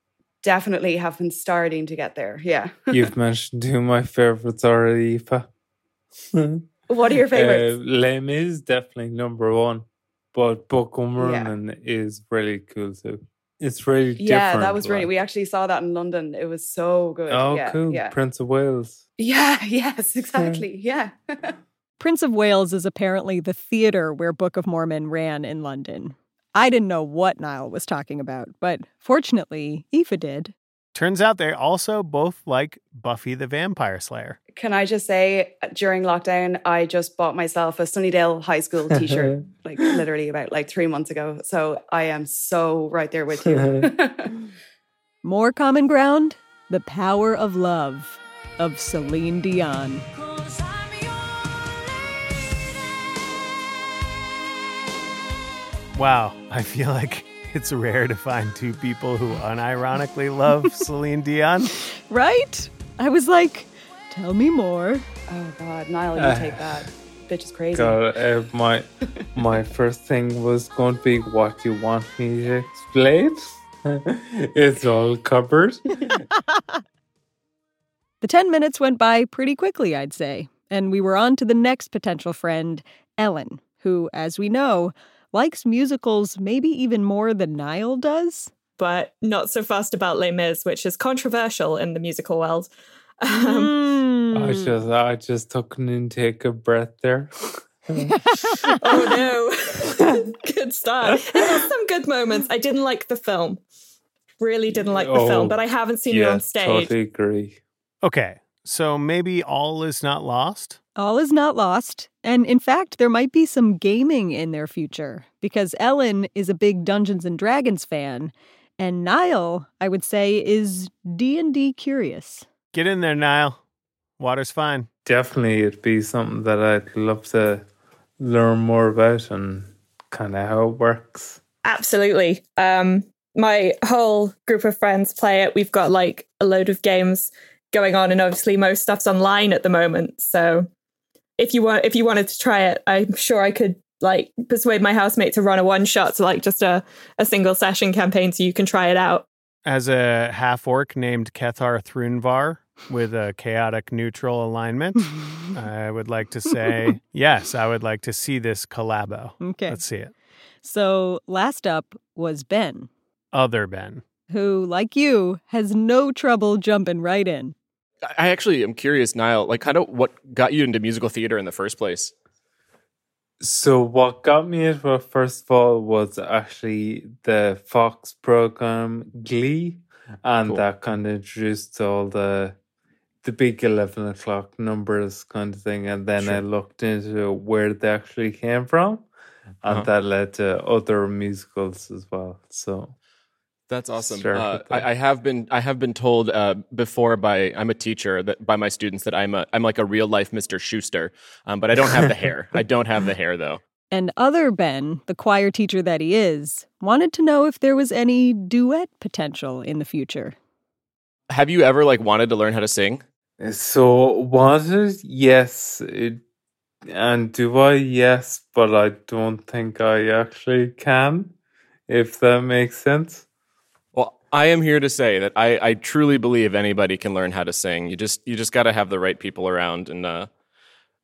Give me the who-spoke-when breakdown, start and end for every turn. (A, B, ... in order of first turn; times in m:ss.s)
0:00.4-0:03.0 A
0:02.9-0:05.5 B
0:06.3-0:06.7 B
0:06.9-0:07.7 A
0:07.3-0:15.1 B
0:11.2-0:11.5 A
0:14.2-0:18.1 A
0:17.3-0:19.0 B
0:19.2-0:21.5 A
0:20.4-0:20.6 B
0:22.0-0:30.5 C
0:31.0-0:34.4 D
0:34.6-0:44.3 A
0:39.0-0:39.3 B
0:43.4-0:43.9 B
0:45.2-0:50.1 C
0:56.0-1:01.8 D
1:02.1-1:05.1 C
1:05.3-1:08.0 A
1:06.2-1:06.9 B
1:07.7-1:16.2 B
1:18.2-1:28.5 C
1:28.8-1:32.7 E
1:33.2-1:33.8 E
1:33.3-1:34.8 C
1:34.3-1:38.2 B
1:38.8-1:43.6 E
1:40.0-1:40.3 B
1:41.1-1:41.7 B
1:44.4-1:46.9 E
1:44.7-1:47.6 B
1:48.0-1:50.8 D
1:51.0-2:02.5 C
2:02.7-2:03.6 D
2:04.2-2:04.9 D
2:05.0-2:07.6 B
2:08.2-2:11.4 B
2:11.6-2:20.7 E
2:21.4-2:29.3 E
2:29.6-2:40.1 D
2:39.4-2:39.8 C
2:40.6-2:42.9 C
2:43.3-2:44.0 D
2:44.3-2:47.6 C
2:48.1-2:52.1 F
2:53.4-3:02.6 B
3:03.2-3:09.1 B
3:09.6-3:12.9 B
3:13.7-3:23.6 F
3:14.0-3:14.9 B
3:23.9-3:30.4 C
3:31.3-3:33.0 F
3:33.4-3:36.2 B
3:36.9-3:41.3 B
3:41.9-3:43.3 B
3:43.9-3:50.3 F